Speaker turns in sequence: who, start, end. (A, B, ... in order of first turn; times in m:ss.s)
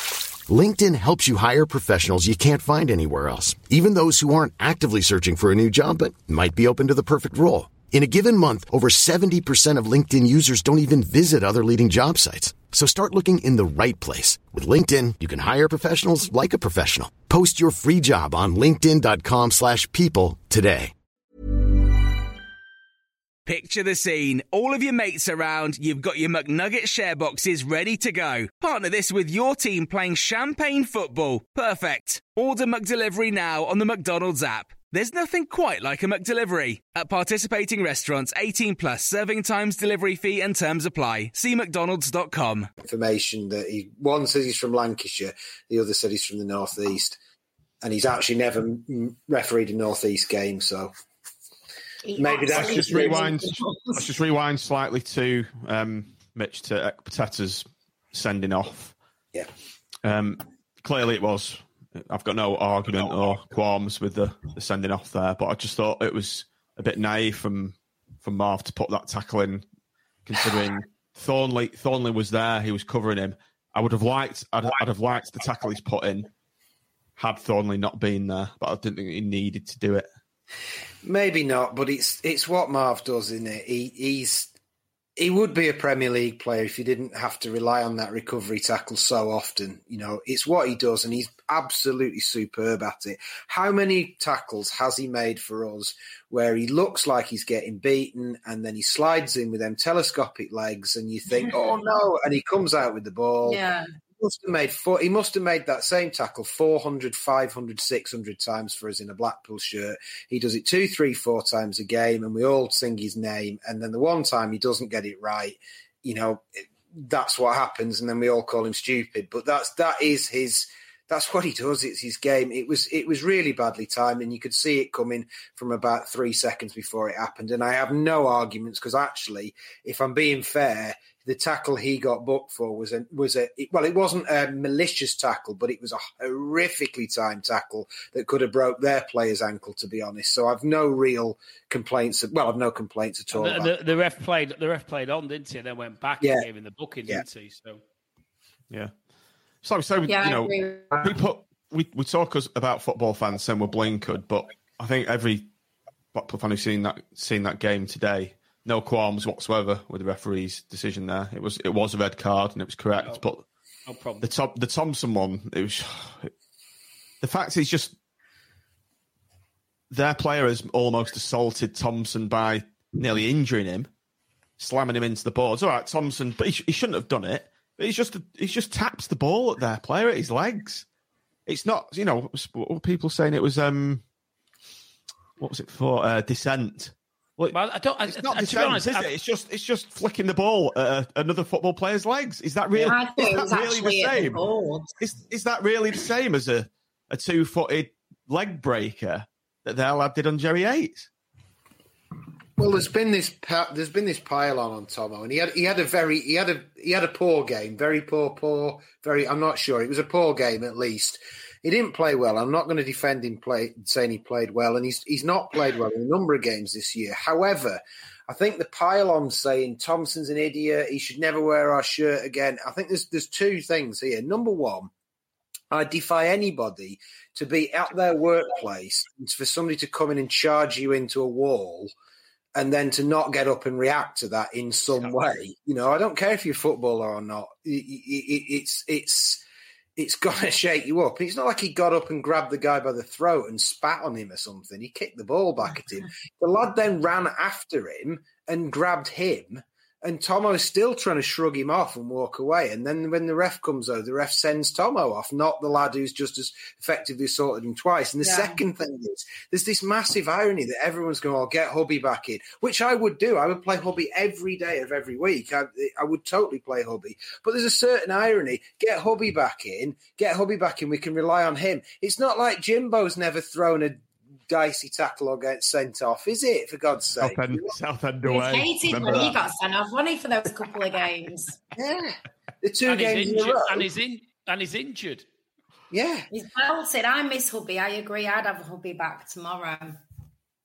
0:00.5-0:20.9 A
0:23.5-0:42.7 B
0:42.8-0:47.2 C
0:47.8-0:50.9 C
0:52.0-0:54.0 D
0:52.2-0:53.3 C
0:52.5-0:59.0 E
1:00.0-1:09.6 E
1:10.3-1:16.3 E
1:17.2-1:20.1 E
1:21.0-1:24.5 C
1:25.2-1:43.6 C
1:43.4-1:43.9 D
1:44.2-2:23.7 C
2:23.3-2:27.8 F
2:26.2-2:26.5 C
2:29.6-2:35.5 E
2:30.1-2:31.2 D
2:36.1-2:43.4 E
2:43.9-2:44.3 F
2:44.2-2:46.3 E
2:47.2-2:48.0 E
2:49.9-2:53.9 E
2:54.6-3:00.8 E
3:01.5-3:04.0 E
3:05.4-3:07.6 E
3:07.5-3:09.1 F
3:08.1-3:14.4 E
3:12.8-3:14.9 D
3:15.0-3:21.1 E
3:22.6-3:44.9 C
3:45.7-3:51.9 C
3:52.6-3:59.4 C
4:00.0-4:37.7 C
4:18.2-4:18.6 D
4:37.2-4:39.4 E
4:38.2-4:41.6 D
4:41.8-4:43.9 C
4:42.9-4:45.2 F
4:45.9-4:46.3 C
4:46.3-4:50.0 D